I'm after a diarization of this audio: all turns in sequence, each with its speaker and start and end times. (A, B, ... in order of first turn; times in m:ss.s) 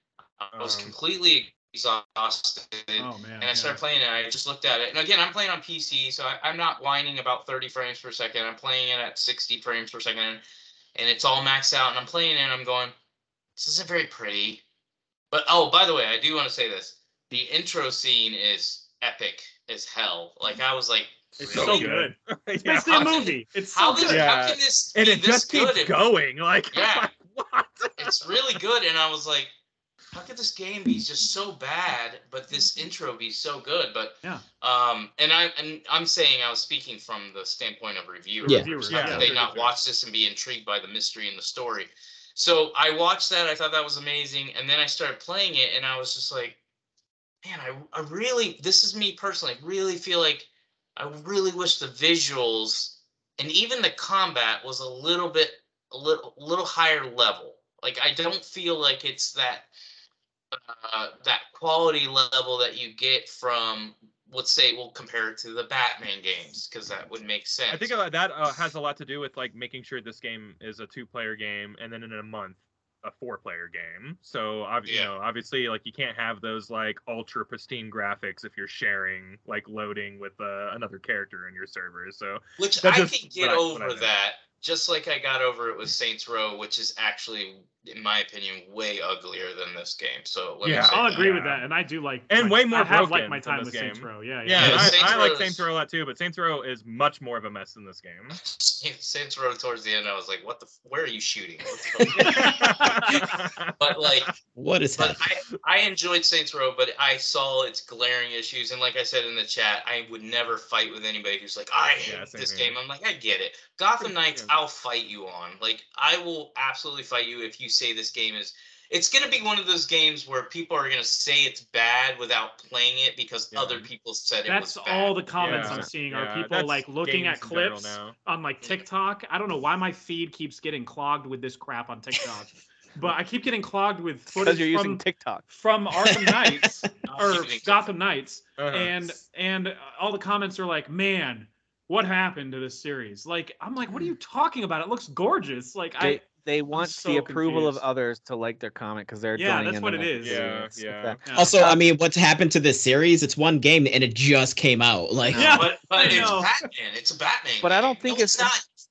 0:00.4-0:10.4 A
0:00.6-0:00.9 B
0:03.0-0:03.8 C
0:10.9-0:12.9 A
0:13.6-0:14.6 A
0:15.3-0:22.0 A
0:21.4-0:24.3 C
0:21.5-0:23.2 B
0:22.8-0:25.9 A
0:24.1-0:28.6 B
0:26.7-0:27.1 A
0:28.0-0:29.5 A
0:30.1-0:46.6 A
0:38.4-0:39.2 D
0:38.4-0:39.3 C
0:38.9-0:39.7 B
0:47.4-0:59.7 A
1:00.5-1:07.9 A
1:07.7-1:24.1 B
1:22.6-1:31.6 A
1:30.6-1:31.6 B
1:30.9-1:35.0 C
1:32.3-1:38.4 B
1:34.5-1:35.6 A
1:38.4-1:44.3 A
1:42.1-1:44.3 B
1:44.5-1:45.4 D
1:45.0-2:05.7 A
1:52.0-1:52.7 B
1:54.0-1:54.5 B
2:03.5-2:03.9 B
2:04.4-2:27.8 C
2:05.4-2:08.1 B
2:05.5-2:05.9 E
2:14.4-2:15.5 E
2:16.4-2:16.7 D
2:17.0-2:17.9 A
2:18.6-2:19.0 B
2:26.0-2:31.8 E
2:29.4-2:30.4 C
2:30.2-2:31.2 B
2:31.2-2:31.6 C
2:31.3-2:35.7 D
2:35.2-2:35.7 E
2:35.3-2:36.7 C
2:35.5-2:38.7 A
2:37.6-2:38.5 E